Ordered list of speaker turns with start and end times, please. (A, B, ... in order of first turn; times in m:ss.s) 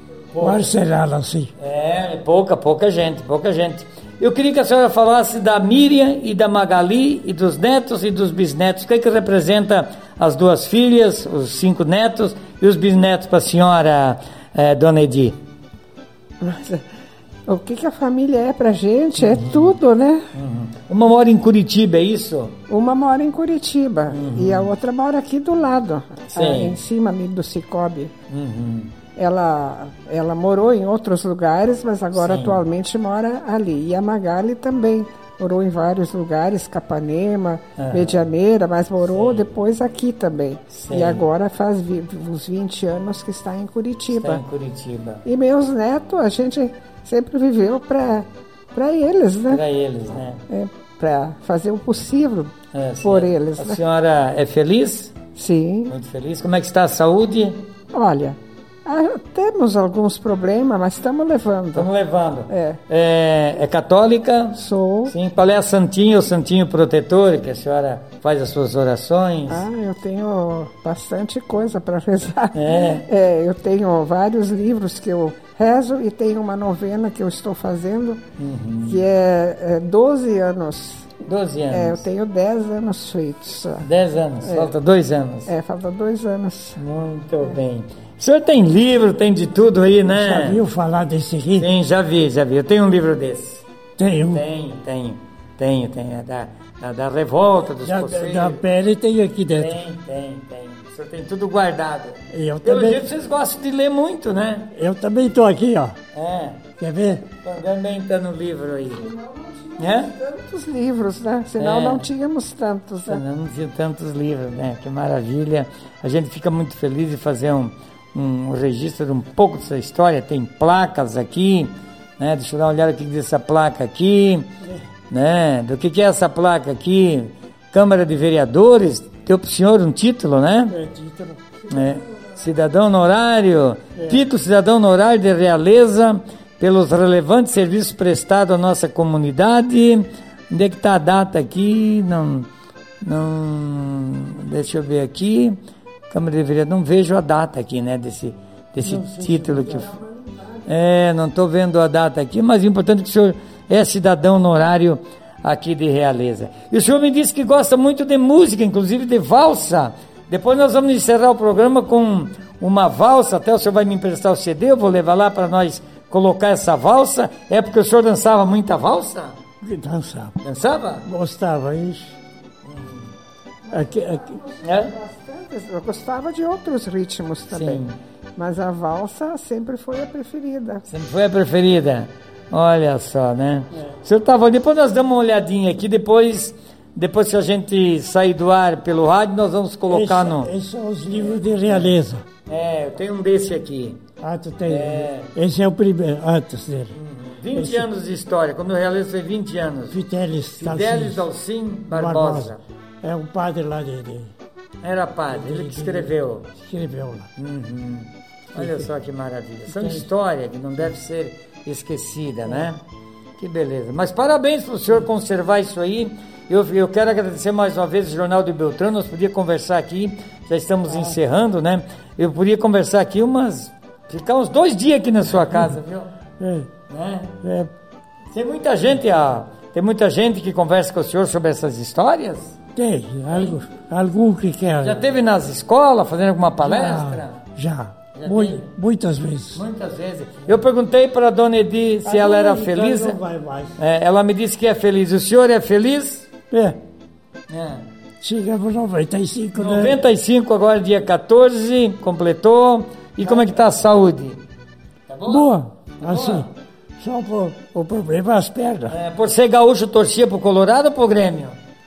0:00.3-0:00.7 A
0:00.4-0:01.5 B
0:01.6-0:15.4 A
0:16.4-0:16.8 C
0:17.5-0:20.3 C
0:19.2-0:19.8 A
0:20.4-0:22.6 A
0:22.7-0:28.1 C
0:24.1-0:24.7 A
0:26.3-0:26.8 A
0:28.3-0:28.9 A
0:29.2-0:44.4 C
0:32.1-0:32.6 A
0:37.8-0:38.3 A
0:39.0-0:39.4 A
0:40.7-0:41.3 A
0:44.1-0:45.2 A
0:45.2-0:49.6 C
0:49.5-0:50.4 A
0:50.5-0:53.8 C
0:52.7-0:55.2 A
0:55.4-0:55.9 C
0:55.9-0:57.6 A
0:57.9-1:01.9 C
1:01.8-1:09.6 A
1:02.5-1:02.8 C
1:04.6-1:05.1 C
1:09.5-1:18.2 C
1:12.6-1:13.1 A
1:18.4-1:19.0 A
1:18.8-1:21.2 C
1:21.2-1:22.0 A
1:21.7-1:23.9 C
1:23.8-1:25.5 A
1:24.4-1:24.7 C
1:25.5-1:26.8 C
1:26.8-1:30.6 A
1:30.1-1:31.7 B
1:31.6-1:33.6 A
1:34.0-1:34.4 B
1:34.3-1:38.6 A
1:37.8-1:39.8 B
1:39.5-1:44.7 A
1:42.3-1:43.0 B
1:44.7-1:46.0 B
1:46.1-1:46.6 A
1:46.8-1:47.3 B
1:47.4-1:49.1 A
1:48.9-1:53.2 C
1:49.8-1:50.1 A
1:51.6-1:52.1 A
1:53.1-2:04.5 A
2:04.6-2:04.9 B
2:05.1-2:10.8 A
2:10.7-2:12.0 B
2:11.7-2:22.5 A
2:14.0-2:14.2 B
2:23.0-2:25.6 A
2:26.1-2:30.0 A
2:28.8-2:29.9 B
2:30.0-2:30.6 C
2:30.7-2:49.4 A
2:49.6-2:50.4 B
2:50.4-2:51.1 A
2:51.0-2:52.2 B
2:52.6-2:53.1 A
2:53.7-2:57.8 C
2:53.7-2:54.4 B
2:54.6-2:54.9 A
2:57.5-2:58.0 A
2:58.4-3:00.8 C
3:00.9-3:10.5 A
3:09.9-3:12.2 B
3:11.1-3:11.9 A
3:12.5-3:14.0 A
3:14.2-3:17.0 B
3:14.7-3:15.3 A
3:17.0-3:20.0 A
3:17.5-3:17.9 B
3:19.9-3:21.3 B
3:20.6-3:22.6 A
3:21.9-3:22.5 B
3:23.0-3:24.3 B
3:24.8-3:26.5 A
3:25.3-3:27.3 B
3:27.4-3:32.8 A
3:28.6-3:28.9 B
3:29.7-3:30.1 B
3:33.4-3:46.1 A
3:40.9-3:41.2 B
3:46.4-3:46.7 B
3:46.9-3:47.4 A
3:47.4-3:47.7 B
3:48.3-3:52.6 A
3:52.8-3:55.1 B
3:54.8-3:57.4 A
3:56.6-3:59.6 B
3:58.2-3:58.6 A
3:59.6-4:03.2 A
4:02.0-4:03.8 B
4:03.8-4:06.3 A
4:06.5-4:06.8 B
4:07.5-4:07.9 A
4:08.2-4:10.0 B
4:09.6-4:14.4 A
4:13.2-4:13.6 B
4:15.1-4:15.5 A
4:15.3-4:16.5 B
4:16.0-4:16.5 A
4:17.0-4:19.0 B
4:18.9-4:21.6 A